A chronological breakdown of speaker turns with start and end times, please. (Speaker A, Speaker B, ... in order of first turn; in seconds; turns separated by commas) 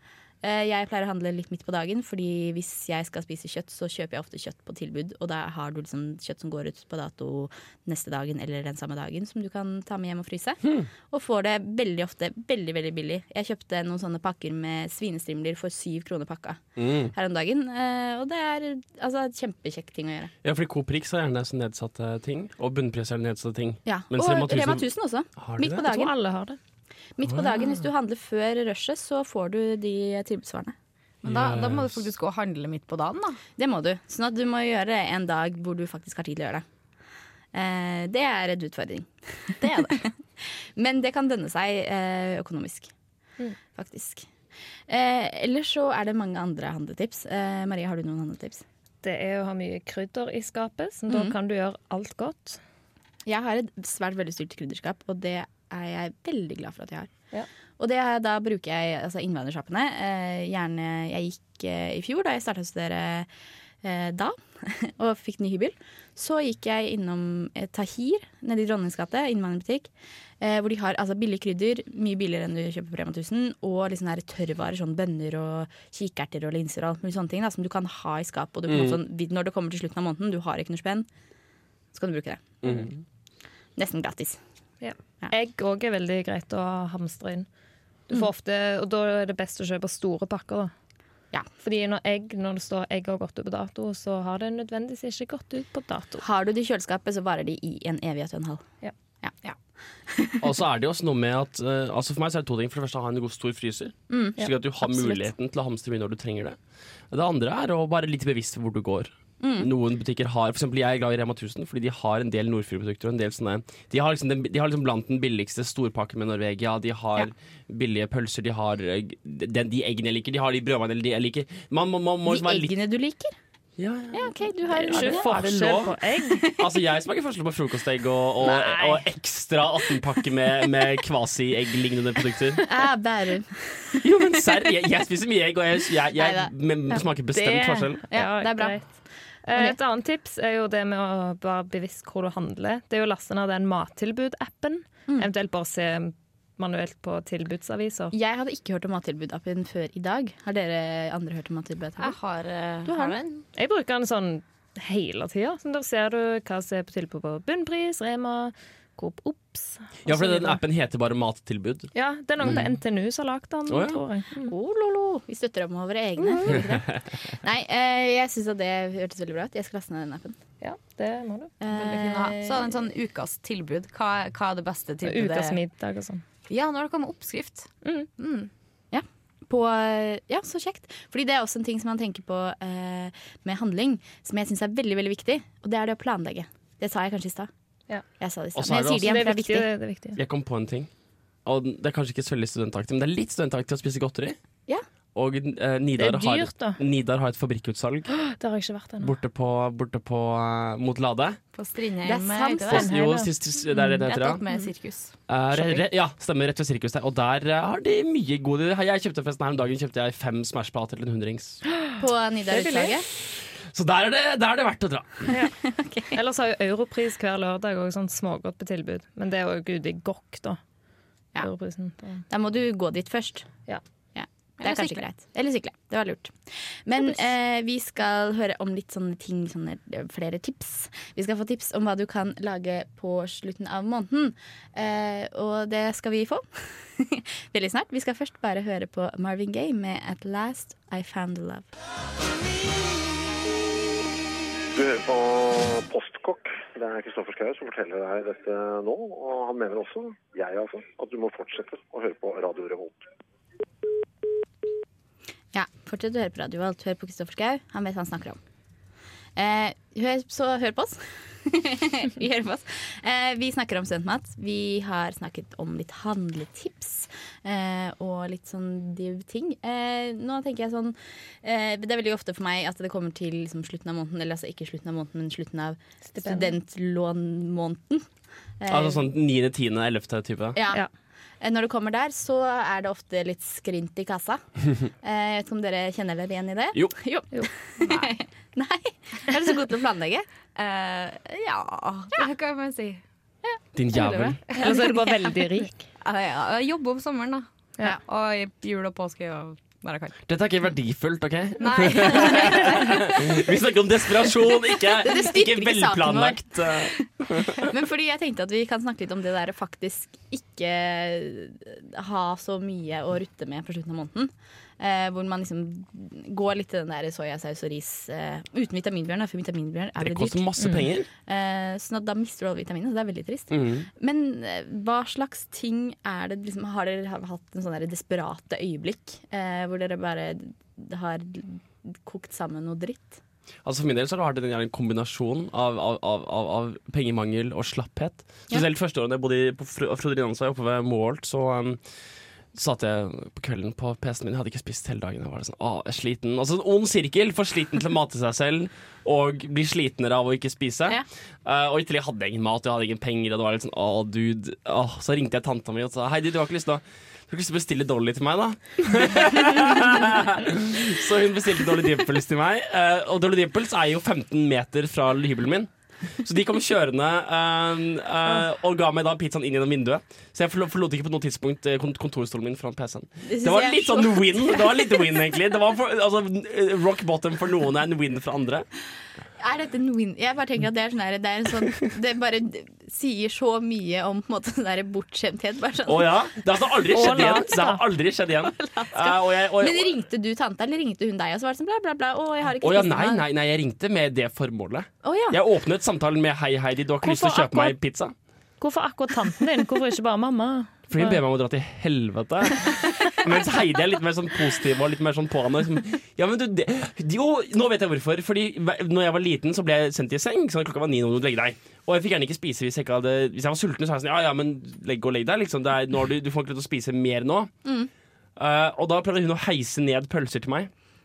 Speaker A: 0.4-20.3, Speaker B: 16.8-17.1, Speaker B: 20.4-25.8, Speaker A: 23.8-26.1, Speaker C: 25.8-26.6, Speaker A: 27.2-30.7, Speaker B: 27.2-27.8, Speaker D: 31.2-33.4, Speaker B: 31.2-32.0, Speaker A: 33.6-36.6, Speaker A: 37.5-42.9, Speaker D: 39.6-40.0, Speaker A: 43.7-44.3, Speaker A: 44.9-48.6, Speaker C: 49.0-52.6, Speaker A: 51.1-51.3, Speaker A: 53.2-57.1, Speaker A: 57.8-63.3, Speaker A: 63.8-69.9, Speaker A: 70.4-81.1, Speaker B: 78.7-79.0, Speaker A: 81.9-82.9, Speaker B: 82.6-83.0, Speaker A: 83.8-84.4, Speaker C: 84.8-87.5, Speaker C: 88.1-90.7, Speaker C: 91.6-96.2, Speaker A: 96.2-98.6, Speaker A: 99.2-100.4, Speaker B: 100.4-106.6, Speaker A: 104.1-104.4, Speaker C: 104.4-105.2, Speaker B: 107.1-122.7, Speaker A: 109.4-109.7, Speaker A: 122.2-123.3, Speaker B: 123.8-132.6, Speaker A: 124.1-125.2, Speaker C: 124.6-126.4, Speaker A: 128.6-128.9, Speaker A: 132.6-134.0, Speaker B: 134.0-138.0, Speaker A: 136.1-137.0, Speaker C: 137.3-148.1, Speaker A: 138.1-139.8, Speaker A: 148.1-152.2, Speaker D: 152.0-153.5, Speaker A: 152.8-153.2, Speaker C: 153.5-160.6, Speaker B: 160.1-162.8, Speaker C: 161.9-164.5, Speaker B: 163.7-164.0, Speaker A: 164.3-170.4, Speaker B: 166.5-167.0, Speaker C: 170.6-171.5, Speaker A: 171.6-172.8, Speaker D: 171.7-175.6, Speaker C: 175.0-176.2, Speaker D: 176.5-178.5, Speaker C: 177.8-178.1, Speaker A: 178.9-187.5, Speaker A: 188.2-189.7, Speaker B: 188.5-189.2, Speaker C: 189.0-190.2, Speaker B: 190.2-190.9, Speaker B: 191.4-194.3, Speaker B: 195.1-198.2, Speaker C: 196.0-196.8, Speaker C: 198.3-199.1, Speaker B: 199.0-201.4, Speaker D: 201.5-202.9, Speaker A: 202.0-202.7, Speaker B: 202.7-204.4, Speaker C: 202.7-203.3, Speaker D: 204.0-205.2, Speaker B: 205.3-211.6, Speaker A: 212.0-213.1, Speaker C: 212.5-212.9, Speaker B: 213.2-215.3, Speaker A: 215.3-216.2, Speaker C: 216.1-220.6, Speaker C: 221.4-222.2, Speaker A: 222.3-223.5, Speaker A: 224.1-241.7, Speaker C: 224.7-224.9, Speaker E: 244.7-253.0, Speaker A: 255.5-258.4, Speaker A: 259.4-278.1, Speaker C: 276.1-276.5, Speaker A: 278.6-279.1, Speaker B: 278.7-280.6, Speaker A: 280.5-280.8, Speaker A: 281.4-284.4, Speaker A: 285.0-290.3, Speaker D: 290.6-293.0, Speaker A: 293.4-294.7, Speaker B: 293.8-294.4, Speaker D: 293.9-295.1, Speaker C: 294.5-295.9, Speaker D: 296.0-300.2, Speaker B: 300.2-307.6, Speaker D: 301.6-303.4, Speaker A: 305.0-306.9, Speaker A: 307.5-333.2, Speaker B: 320.0-321.1, Speaker C: 320.6-320.8, Speaker B: 323.5-323.9, Speaker B: 333.6-341.8, Speaker B: 342.5-378.6, Speaker A: 373.2-375.1, Speaker A: 379.4-386.1, Speaker B: 385.9-389.9, Speaker C: 386.9-387.8, Speaker A: 388.5-393.2, Speaker B: 392.6-398.1, Speaker A: 395.0-395.4, Speaker C: 397.0-397.8, Speaker C: 398.6-401.2, Speaker B: 400.9-417.5, Speaker A: 417.6-417.9, Speaker B: 418.4-420.7